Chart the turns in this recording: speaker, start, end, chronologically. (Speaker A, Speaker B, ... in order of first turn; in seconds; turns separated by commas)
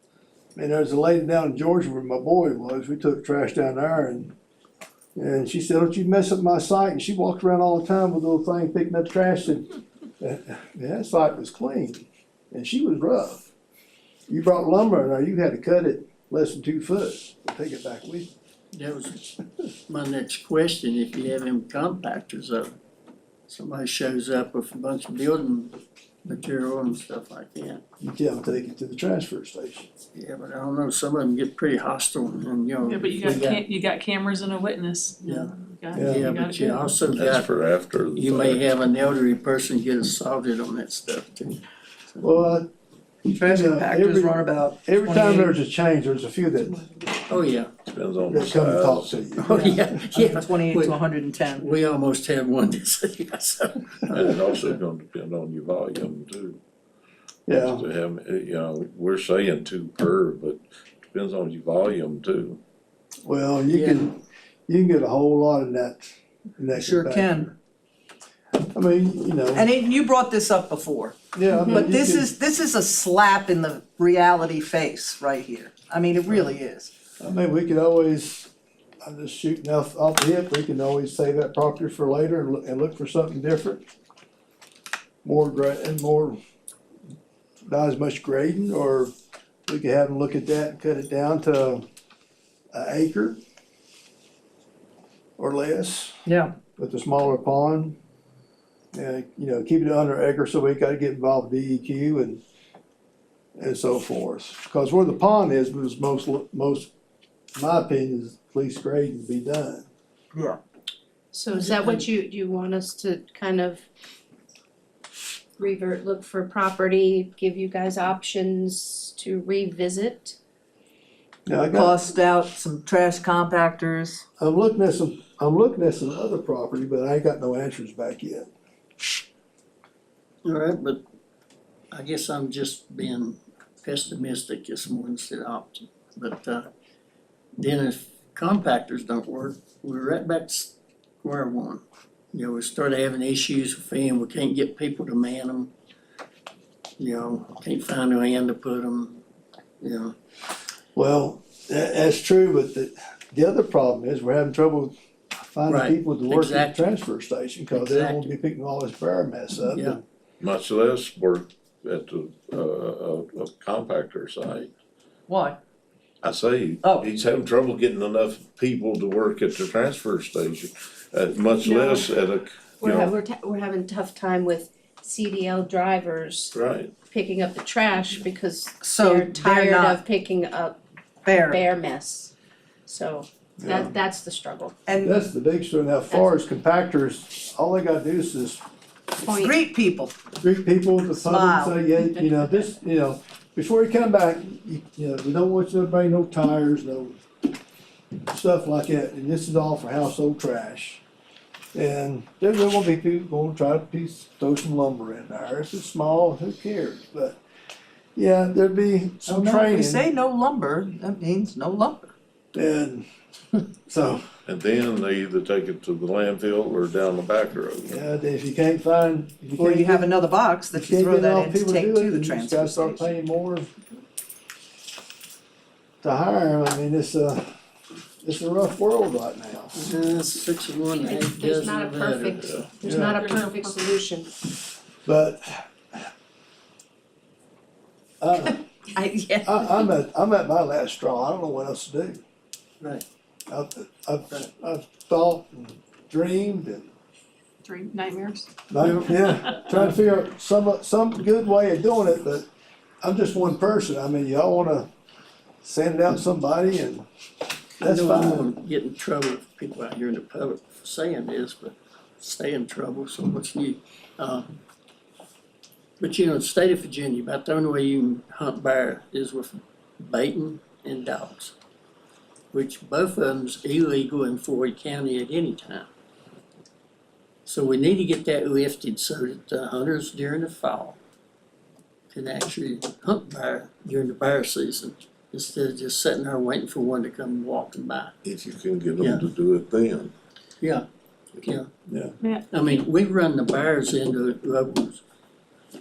Speaker A: 0.6-4.3, Speaker A: 5.2-13.5, Speaker A: 14.3-18.3, Speaker B: 18.7-19.3, Speaker B: 19.9-22.7, Speaker B: 23.5-27.8, Speaker A: 28.0-29.9, Speaker B: 30.1-33.6, Speaker C: 32.8-36.9, Speaker B: 35.2-37.5, Speaker A: 35.9-36.3, Speaker D: 37.1-38.7, Speaker B: 38.2-41.6, Speaker A: 42.2-42.7, Speaker E: 43.3-45.5, Speaker A: 43.3-46.9, Speaker B: 47.3-47.8, Speaker D: 47.9-49.2, Speaker A: 48.3-49.9, Speaker B: 49.4-54.8, Speaker E: 49.5-51.7, Speaker D: 54.1-56.6, Speaker A: 57.5-57.9, Speaker D: 57.6-62.6, Speaker A: 63.2-67.5, Speaker B: 63.7-64.1, Speaker E: 66.8-67.5, Speaker A: 68.7-69.7, Speaker E: 69.5-76.9, Speaker A: 71.3-72.3, Speaker A: 77.2-78.5, Speaker A: 79.0-83.8, Speaker A: 85.2-86.4, Speaker A: 87.7-89.1, Speaker A: 89.7-91.8, Speaker A: 92.7-93.4, Speaker A: 95.4-96.2, Speaker E: 96.3-96.5, Speaker A: 96.8-98.0, Speaker A: 98.9-102.4, Speaker A: 103.6-106.9, Speaker A: 107.6-109.9, Speaker F: 111.3-113.9, Speaker B: 111.5-112.1, Speaker F: 115.6-120.4, Speaker A: 121.5-122.0, Speaker E: 121.7-124.2, Speaker A: 124.4-128.5, Speaker B: 130.4-131.0, Speaker B: 131.9-136.7, Speaker B: 137.6-141.8, Speaker B: 142.3-145.7, Speaker B: 147.0-149.2, Speaker B: 149.8-150.1, Speaker A: 150.9-154.9, Speaker A: 155.5-160.0, Speaker B: 155.7-156.8, Speaker B: 157.7-158.3, Speaker D: 160.4-164.7, Speaker E: 165.3-165.6, Speaker D: 166.2-173.1, Speaker F: 171.7-172.1, Speaker F: 172.8-176.5, Speaker D: 176.5-176.9, Speaker F: 177.1-180.8, Speaker E: 178.8-180.0, Speaker E: 181.2-181.6, Speaker F: 181.3-182.3, Speaker F: 182.9-184.8, Speaker A: 183.6-183.9, Speaker E: 184.9-185.3, Speaker A: 185.0-188.6, Speaker F: 186.1-186.4, Speaker F: 189.2-189.6, Speaker E: 189.2-190.2, Speaker A: 190.4-197.2, Speaker E: 191.1-191.9, Speaker A: 198.3-201.0, Speaker A: 201.7-207.4, Speaker A: 208.2-210.1, Speaker E: 209.2-212.1, Speaker A: 212.5-213.1, Speaker A: 213.8-214.2, Speaker D: 214.5-218.0, Speaker A: 217.9-220.2, Speaker E: 219.6-223.1, Speaker A: 220.8-223.7, Speaker A: 226.0-227.5, Speaker A: 228.2-229.8, Speaker B: 229.8-232.5, Speaker F: 230.9-234.3, Speaker D: 232.4-232.7, Speaker A: 232.8-233.2, Speaker C: 233.1-233.8, Speaker A: 235.1-235.7, Speaker A: 238.2-238.7, Speaker F: 238.9-239.9, Speaker A: 239.4-242.2, Speaker B: 242.8-243.1, Speaker A: 243.5-246.9, Speaker C: 247.6-248.5, Speaker A: 248.7-252.5, Speaker A: 253.0-254.9, Speaker A: 255.6-257.1, Speaker A: 257.8-258.5, Speaker B: 257.8-264.5, Speaker B: 266.0-271.5, Speaker B: 272.5-275.9, Speaker B: 277.5-281.0, Speaker B: 282.1-288.1, Speaker D: 288.2-290.1, Speaker A: 291.9-292.2, Speaker C: 292.2-292.5, Speaker B: 292.5-295.0